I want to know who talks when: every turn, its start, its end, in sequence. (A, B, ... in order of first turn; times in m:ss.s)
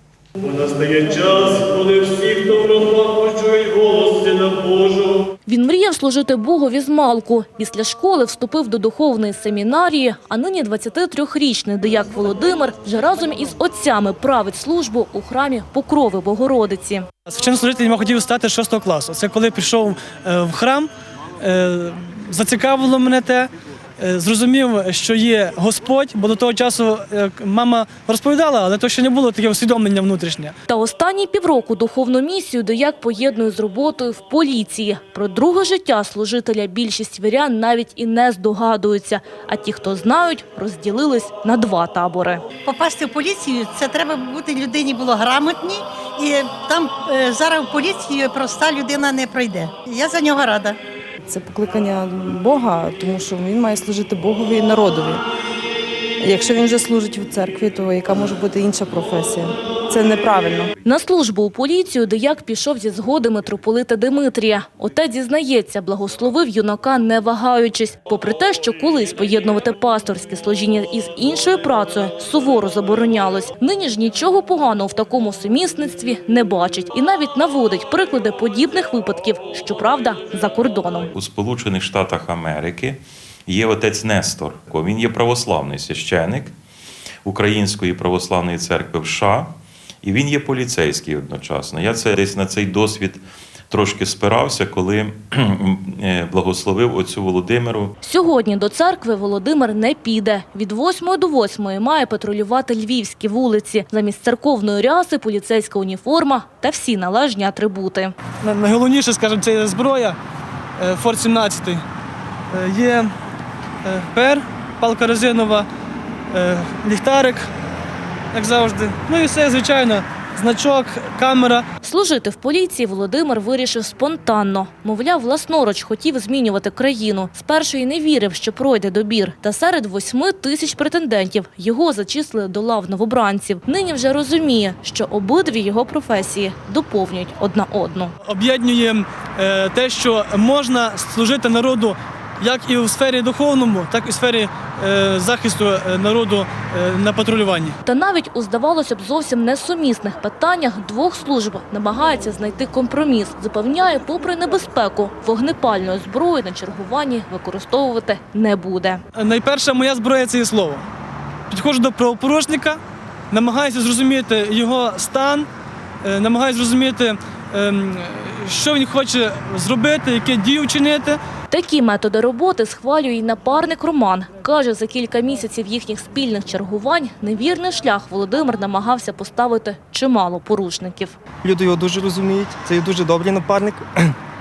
0:00.7-0:05.0 A
0:00.9-0:01.8 B
0:02.8-0:03.6 B
0:04.1-0:04.8 B
0:05.5-0:17.1 C
0:17.3-0:30.6 B
0:30.7-0:42.4 C
0:42.6-0:50.8 D
0:51.3-0:55.2 E
0:56.2-1:00.7 E
1:00.8-1:21.1 C
1:21.2-1:26.5 F
1:27.2-1:37.9 F
1:38.0-1:48.2 C
1:48.4-1:50.2 B
1:50.8-1:51.8 B
1:52.5-1:53.1 B
1:53.8-1:55.7 B
1:56.3-1:57.5 B
1:58.3-2:01.7 B
2:01.8-2:18.1 C
2:18.2-2:27.8 B
2:27.9-2:39.0 C
2:39.2-2:40.9 B
2:41.5-2:42.8 B
2:43.3-2:45.5 B
2:46.0-2:51.2 B
2:51.5-3:01.2 C
3:01.4-3:04.1 G